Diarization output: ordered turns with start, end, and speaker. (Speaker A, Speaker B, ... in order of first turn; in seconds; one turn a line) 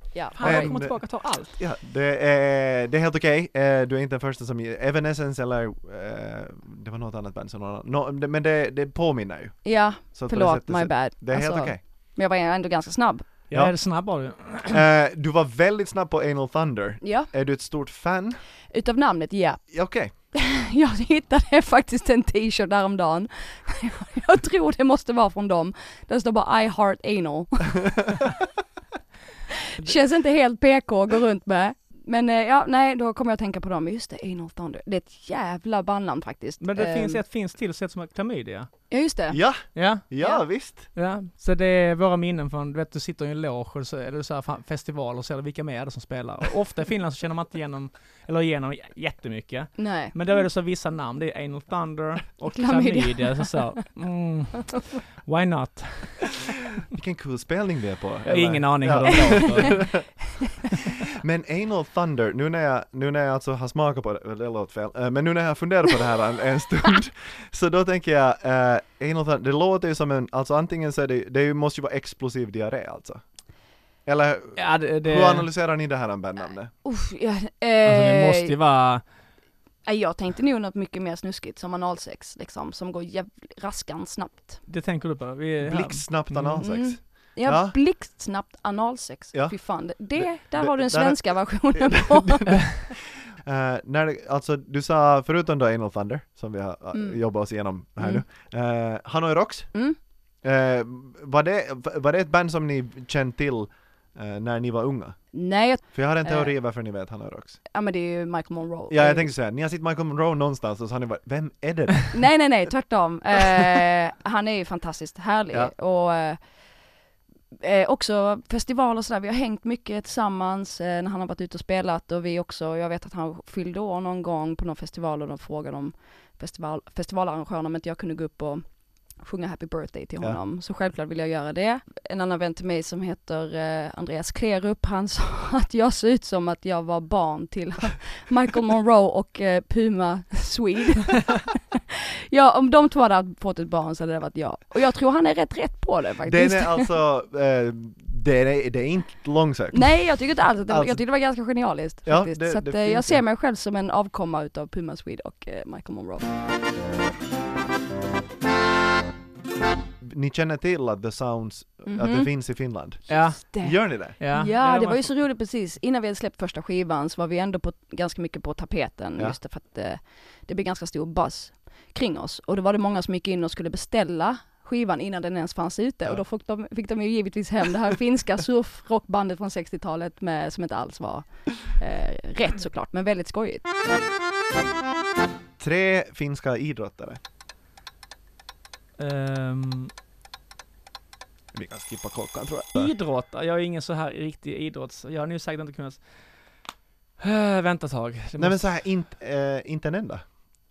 Speaker A: 0.1-0.8
Speaker B: 0.3-11.8
Speaker C: 0.3-1.6
Speaker A: 9.6-13.3
Speaker C: 13.5-14.8
Speaker B: 13.5-13.8
Speaker B: 14.7-18.4
Speaker A: 17.0-17.3
Speaker A: 18.7-28.1
Speaker B: 19.7-20.1
Speaker A: 29.8-37.2
Speaker C: 36.6-38.7
Speaker A: 38.9-39.4
Speaker B: 39.3-40.9
Speaker C: 39.8-40.1
Speaker A: 40.2-40.4
Speaker C: 40.7-56.4
Speaker A: 49.8-50.1
Speaker A: 52.5-53.8
Speaker B: 56.9-60.1
Speaker C: 58.3-60.1
Speaker A: 59.2-59.8
Speaker B: 61.1-73.2
Speaker B: 74.0-76.7
Speaker C: 74.6-75.5
Speaker A: 76.8-78.6
Speaker C: 77.8-79.0
Speaker A: 79.8-84.6
Speaker C: 84.7-86.7
Speaker B: 85.6-87.8
Speaker A: 86.6-92.7
Speaker B: 89.3-99.8
Speaker A: 96.9-98.2
Speaker B: 100.4-105.2
Speaker A: 105.3-106.5
Speaker B: 105.8-107.6
Speaker A: 107.7-109.3
Speaker B: 108.9-112.3
Speaker A: 112.1-116.4
Speaker A: 117.6-128.6
Speaker A: 129.2-146.9
Speaker B: 146.2-151.0
Speaker A: 149.7-156.3
Speaker B: 152.1-153.2
Speaker B: 160.0-164.2
Speaker A: 161.9-162.3
Speaker C: 163.1-165.1
Speaker A: 163.1-183.7
Speaker B: 185.6-187.2
Speaker C: 189.0-189.9
Speaker B: 191.5-192.9
Speaker C: 192.8-196.0
Speaker C: 197.2-198.6
Speaker B: 198.4-200.2